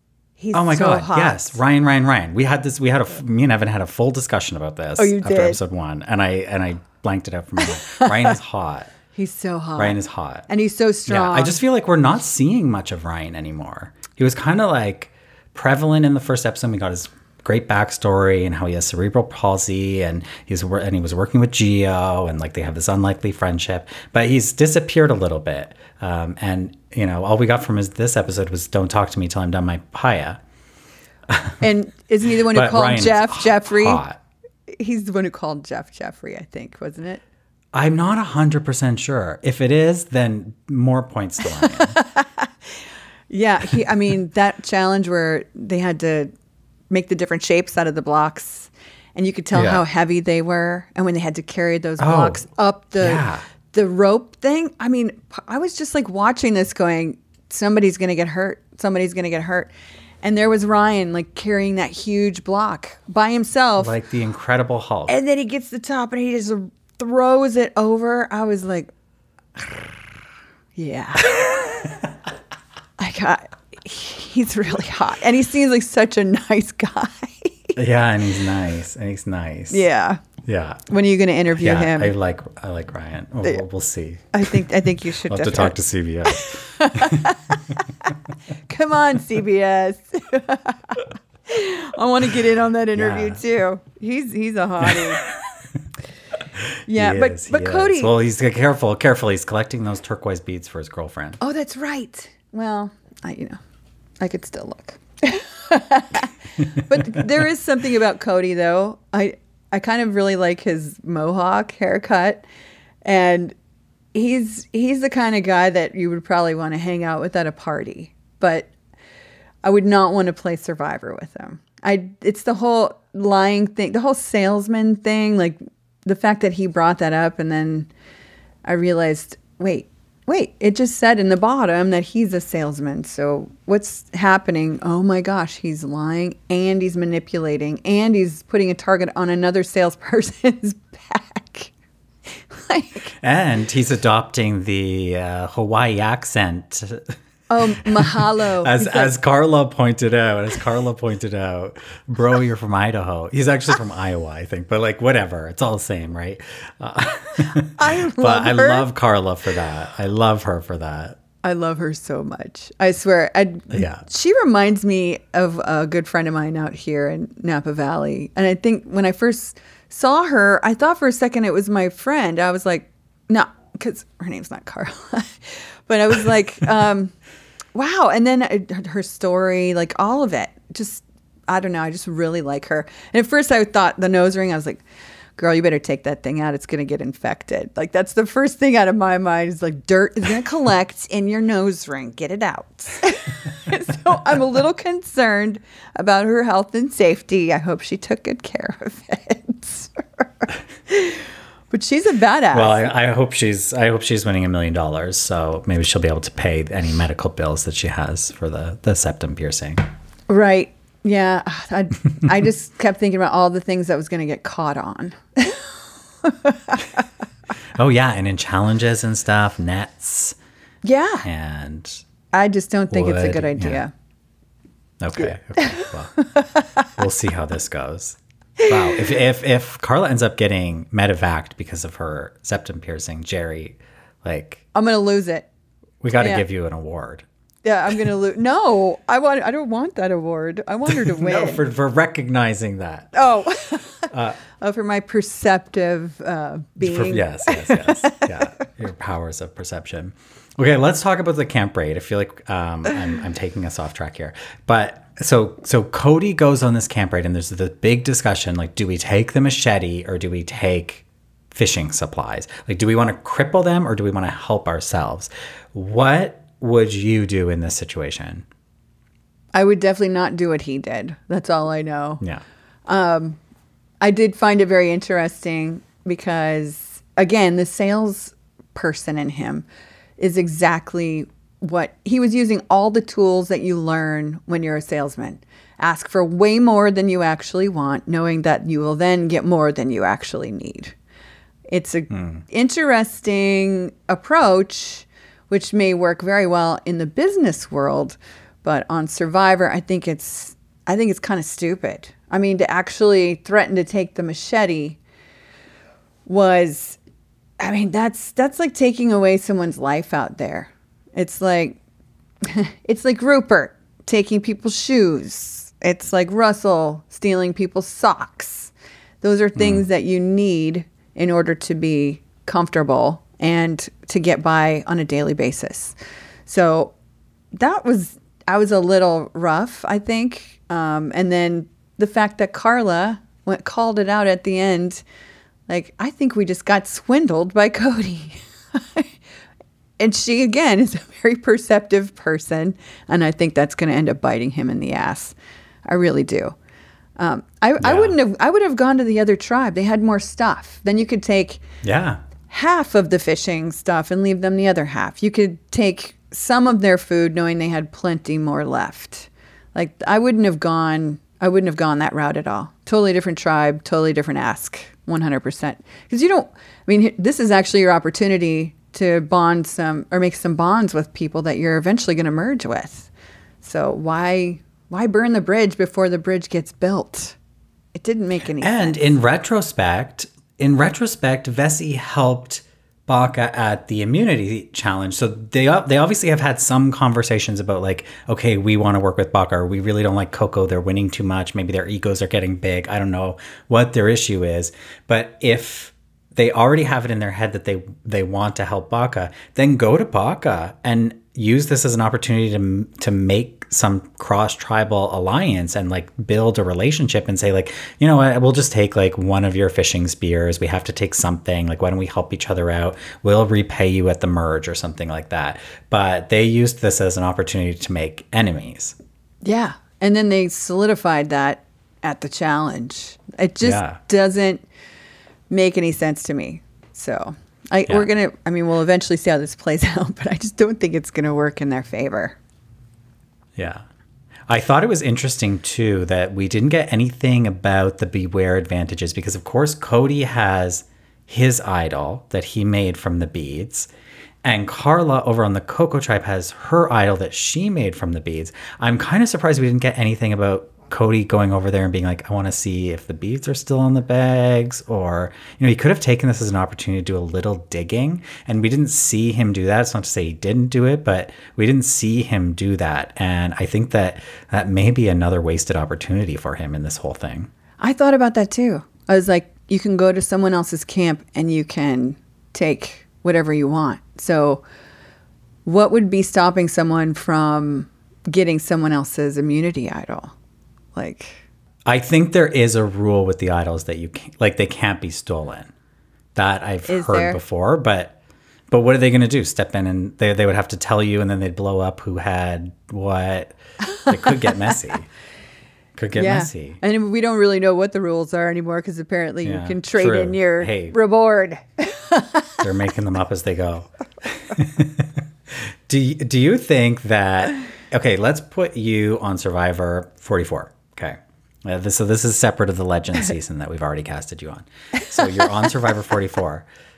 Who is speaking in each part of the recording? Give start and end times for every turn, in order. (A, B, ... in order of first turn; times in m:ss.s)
0:00.4-0:01.6 A
0:00.5-0:08.9 B
0:05.0-0:05.6 A
0:07.8-0:08.2 A
0:09.1-0:11.6 A
0:09.8-0:10.5 B
0:11.1-0:30.4 B
0:31.3-0:31.6 B
0:31.6-0:34.0 A
0:32.5-0:34.2 B
0:34.7-0:37.2 A
0:37.7-0:42.0 B
0:41.5-0:42.5 A
0:43.3-0:46.3 A
0:46.9-0:59.7 A
0:49.5-0:49.8 B
0:52.0-0:52.4 B
0:53.0-0:53.4 B
1:00.2-1:03.9 A
1:03.8-1:05.2 B
1:05.1-1:08.9 A
1:10.8-1:11.9 A
1:13.0-1:17.7 A
1:17.8-1:19.8 B
1:19.7-1:20.2 A
1:20.4-1:20.8 B
1:20.9-1:22.1 A
1:21.6-1:24.6 B
1:24.3-1:25.7 A
1:25.3-1:27.3 B
1:26.3-1:27.7 A
1:28.7-1:35.2 A
1:32.9-1:33.4 B
1:34.8-1:35.1 B
1:36.6-1:41.4 B
1:36.9-1:38.1 A
1:41.4-1:43.6 A
1:44.2-1:52.4 A
1:53.0-1:53.5 A
1:54.1-1:58.7 A
1:59.6-2:07.9 A
2:08.6-2:21.7 A
2:22.5-2:23.1 A
2:23.2-2:27.2 B
2:27.5-2:29.1 A
2:27.7-2:41.2 B
2:37.6-2:38.9 A
2:41.4-2:57.1 A
2:43.7-2:44.0 B
2:57.7-3:04.8 A
3:05.4-3:22.8 A
3:22.5-3:29.8 B
3:30.3-3:37.0 A
3:37.7-3:40.4 B
3:40.8-3:41.3 A
3:41.2-3:42.0 B
3:42.3-3:43.9 A
3:42.9-3:43.8 B
3:45.0-3:46.2 B
3:46.4-3:46.6 A
3:47.0-3:54.6 B
3:54.7-3:55.5 A
3:56.0-3:57.2 B
3:56.1-3:56.4 A
3:57.6-4:01.6 A
4:00.9-4:03.2 B
4:03.1-4:08.4 A
4:04.1-4:04.4 B
4:06.8-4:28.4 B
4:29.5-4:32.2 A
4:32.9-4:33.4 A
4:34.0-4:39.6 A
4:40.2-4:50.9 A
4:51.7-5:05.0 A
4:52.1-4:52.4 B
5:06.2-5:07.0 A
5:07.6-5:11.8 A
5:12.4-5:26.9 A
5:19.6-5:19.8 B
5:27.5-5:35.0 A
5:35.7-5:39.1 A
5:40.0-5:45.3 A
5:45.8-5:46.5 A
5:47.2-5:51.6 A
5:47.8-5:48.2 B
5:51.8-5:52.2 B
5:52.5-6:13.1 A
6:13.6-6:17.4 A
6:18.0-6:19.0 A
6:18.6-6:59.0 B
6:59.4-7:04.6 A
7:03.6-7:04.0 B
7:05.5-7:12.4 A
7:13.6-7:13.8 B
7:14.5-7:23.9 B
7:24.4-7:47.5 B
7:47.8-7:54.6 A
7:55.6-8:00.3 A
8:00.9-8:01.4 A
8:01.8-8:05.7 B
8:06.3-8:08.2 B
8:06.9-8:07.4 A
8:08.7-8:15.1 B
8:15.9-8:16.8 B
8:16.1-8:22.6 A
8:19.4-8:21.0 B
8:22.6-8:36.7 B